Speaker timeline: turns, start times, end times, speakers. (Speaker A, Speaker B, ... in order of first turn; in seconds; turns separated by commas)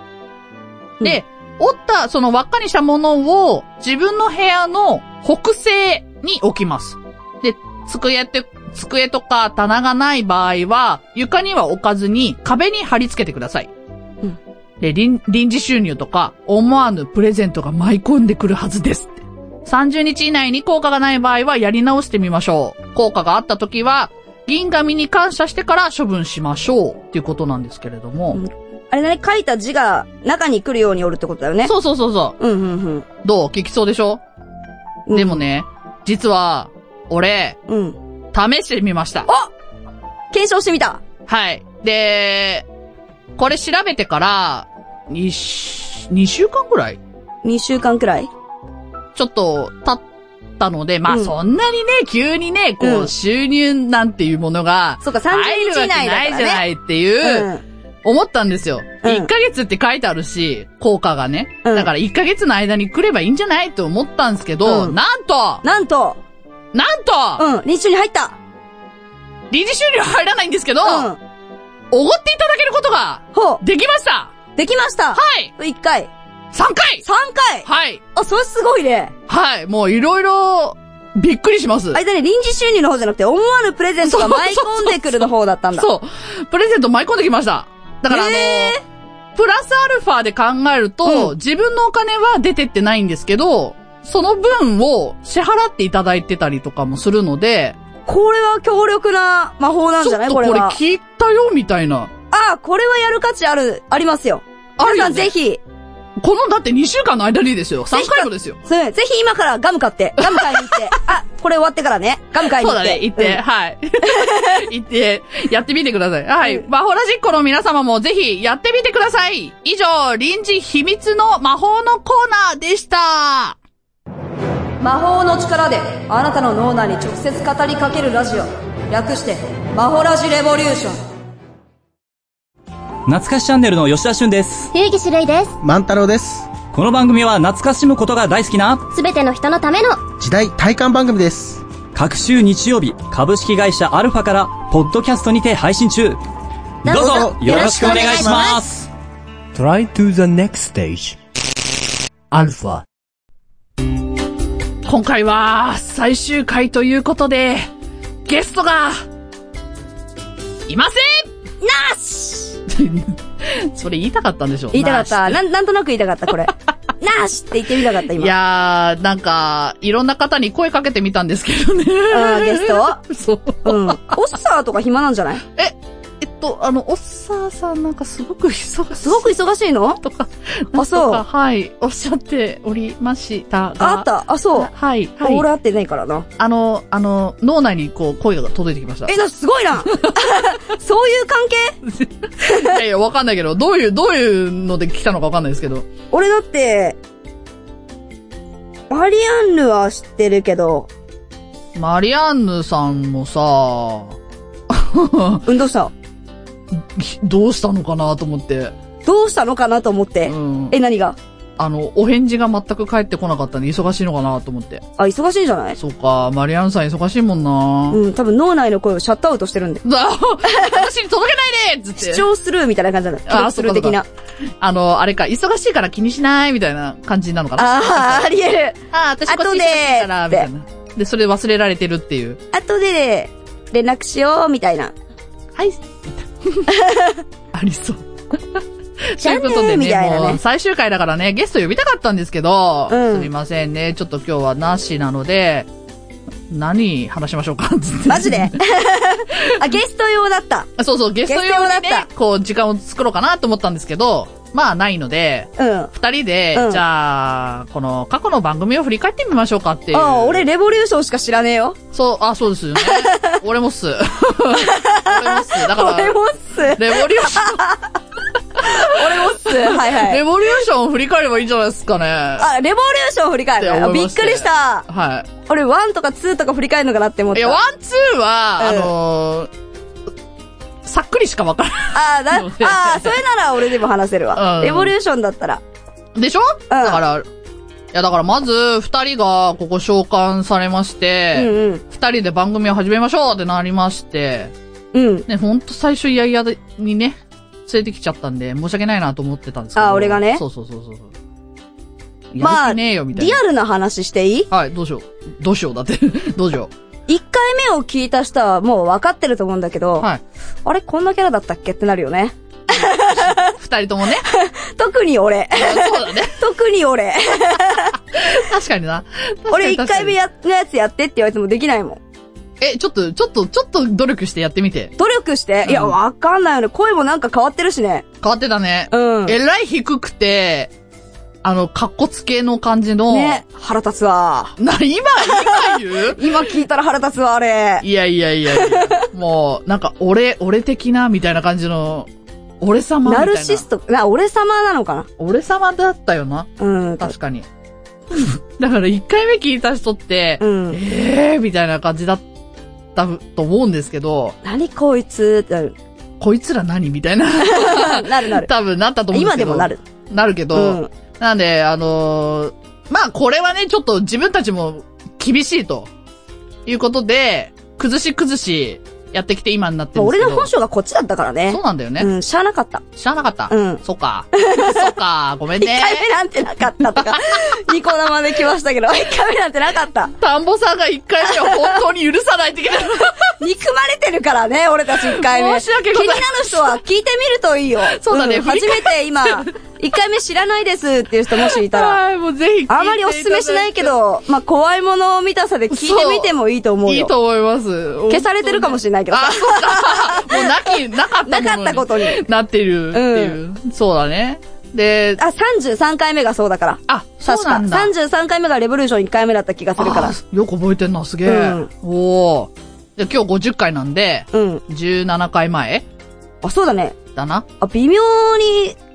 Speaker A: 1.0-13.7, Speaker A: 14.8-28.4, Speaker B: 28.3-31.7, Speaker A: 31.6-32.4, Speaker B: 32.4-33.0, Speaker A: 33.2-34.2, Speaker B: 35.1-35.4, Speaker A: 35.1-37.6, Speaker B: 37.7-38.0, Speaker A: 38.3-39.3, Speaker B: 40.3-41.0, Speaker A: 41.3-42.6, Speaker A: 43.4-47.0, Speaker B: 47.4-48.3, Speaker A: 49.1-50.0, Speaker A: 50.6-57.5, Speaker B: 52.8-53.1, Speaker B: 55.0-56.6, Speaker B: 57.2-57.6, Speaker A: 58.0-65.6, Speaker B: 59.0-59.3, Speaker B: 61.6-61.9, Speaker B: 64.6-65.0, Speaker B: 65.6-66.2, Speaker A: 66.7-67.4, Speaker B: 67.4-68.4, Speaker A: 69.5-71.1, Speaker B: 70.8-71.2, Speaker A: 71.9-74.3, Speaker B: 73.3-73.6, Speaker B: 74.5-76.1, Speaker A: 75.1-75.5, Speaker A: 76.5-77.0, Speaker B: 77.0-79.1, Speaker A: 77.6-78.0, Speaker A: 79.3-82.0, Speaker B: 81.9-85.9, Speaker A: 84.0-88.8, Speaker B: 88.1-88.8, Speaker A: 89.3-97.8, Speaker B: 91.0-91.3, Speaker B: 98.1-100.8, Speaker A: 100.0-102.1, Speaker B: 102.3-105.6, Speaker A: 104.8-105.3, Speaker A: 106.2-108.6, Speaker B: 107.9-113.4, Speaker A: 110.2-110.7, Speaker A: 112.5-123.6, Speaker B: 114.0-114.6, Speaker B: 124.8-131.0, Speaker C: 133.1-134.7, Speaker D: 134.7-135.6, Speaker E: 135.6-136.5, Speaker C: 136.7-138.9, Speaker D: 138.9-140.0, Speaker E: 140.2-141.6, Speaker C: 141.9-146.2, Speaker C: 146.8-148.9, Speaker D: 146.8-148.6, Speaker E: 146.9-148.5, Speaker F: 149.5-151.2, Speaker F: 152.3-152.8, Speaker A: 154.8-157.7, Speaker A: 158.3-159.0, Speaker A: 160.7-161.3, Speaker B: 161.6-162.5, Speaker A: 162.7-165.4, Speaker B: 164.7-168.3, Speaker A: 168.2-174.2, Speaker B: 172.1-173.0, Speaker B: 173.6-175.4, Speaker A: 175.6-179.2, Speaker B: 179.0-180.0, Speaker A: 180.0-185.4, Speaker B: 180.7-181.2, Speaker B: 183.8-186.2, Speaker A: 186.4-189.2, Speaker B: 189.1-191.7, Speaker A: 189.9-190.2, Speaker A: 191.8-195.8, Speaker B: 192.4-192.8, Speaker B: 196.1-197.0, Speaker B: 198.9-200.9, Speaker A: 201.7-204.2, Speaker A: 204.7-205.4, Speaker B: 205.4-205.9, Speaker A: 206.7-208.7, Speaker B: 209.0-211.2, Speaker A: 210.3-210.8, Speaker A: 211.6-214.8, Speaker B: 215.0-215.8, Speaker A: 215.8-218.0, Speaker B: 217.9-219.8, Speaker A: 219.8-222.2, Speaker B: 220.4-220.8, Speaker B: 222.0-224.1, Speaker A: 223.3-224.0, Speaker A: 224.6-228.3, Speaker B: 227.6-228.7, Speaker A: 228.9-232.4, Speaker B: 229.3-230.5, Speaker B: 232.5-234.9, Speaker A: 235.6-236.7, Speaker B: 236.7-237.2, Speaker A: 237.5-238.6, Speaker A: 239.1-245.7, Speaker B: 239.2-240.4, Speaker B: 242.9-243.3, Speaker A: 246.5-248.6, Speaker B: 248.1-250.7, Speaker A: 250.8-260.4, Speaker B: 251.3-252.1, Speaker B: 255.6-255.9, Speaker B: 256.5-256.8, Speaker B: 259.9-261.8, Speaker A: 261.9-266.2, Speaker B: 262.8-263.4, Speaker B: 264.6-267.9, Speaker A: 266.7-267.6, Speaker A: 268.6-272.5, Speaker B: 268.6-270.2, Speaker B: 272.4-274.8, Speaker A: 273.6-275.3, Speaker B: 275.4-277.6, Speaker A: 277.3-279.5, Speaker B: 278.6-278.9, Speaker A: 280.8-283.2, Speaker B: 281.9-285.6, Speaker A: 284.3-284.9, Speaker A: 286.1-287.2, Speaker B: 286.7-287.0, Speaker A: 287.9-294.5, Speaker B: 291.3-291.8, Speaker B: 294.9-295.2, Speaker A: 295.3-301.1, Speaker B: 299.8-300.4, Speaker A: 302.3-303.4, Speaker B: 302.4-304.5, Speaker A: 304.5-306.7, Speaker B: 307.1-310.1, Speaker B: 310.6-313.5, Speaker A: 312.7-314.2, Speaker B: 314.3-317.9, Speaker A: 315.5-316.4, Speaker A: 318.1-320.1, Speaker B: 319.5-322.0, Speaker A: 322.6-324.9, Speaker B: 325.0-328.0, Speaker A: 325.6-325.9, Speaker A: 328.2-330.7, Speaker B: 328.9-329.3, Speaker A: 331.4-333.4, Speaker B: 333.1-334.5, Speaker A: 334.6-336.4, Speaker B: 335.2-337.8, Speaker A: 337.8-342.1, Speaker B: 338.5-339.0, Speaker A: 342.6-343.6, Speaker B: 343.1-345.1, Speaker A: 345.2-347.4, Speaker B: 346.6-347.1, Speaker A: 348.1-352.2, Speaker B: 350.4-350.8, Speaker A: 352.9-354.4, Speaker B: 354.4-355.7, Speaker A: 356.2-365.9, Speaker B: 357.4-358.5, Speaker B: 359.1-359.8, Speaker B: 360.5-360.9, Speaker A: 366.6-370.5, Speaker B: 369.9-372.8, Speaker A: 371.5-372.1, Speaker A: 372.9-376.1, Speaker B: 373.5-373.8, Speaker B: 374.3-374.9, Speaker B: 375.6-380.1, Speaker A: 380.2-383.2, Speaker B: 383.4-392.0, Speaker A: 385.0-386.8, Speaker A: 387.9-389.5, Speaker A: 391.4-393.9, Speaker B: 392.7-397.1, Speaker A: 395.7-396.3, Speaker A: 396.9-405.2, Speaker B: 398.1-400.5, Speaker B: 401.2-402.2, Speaker B: 402.9-403.4, Speaker B: 405.2-410.1, Speaker A: 406.9-407.9, Speaker A: 409.8-415.8, Speaker B: 411.2-411.7, Speaker B: 414.3-414.6, Speaker B: 416.4-416.9, Speaker A: 417.1-417.4, Speaker B: 417.6-418.8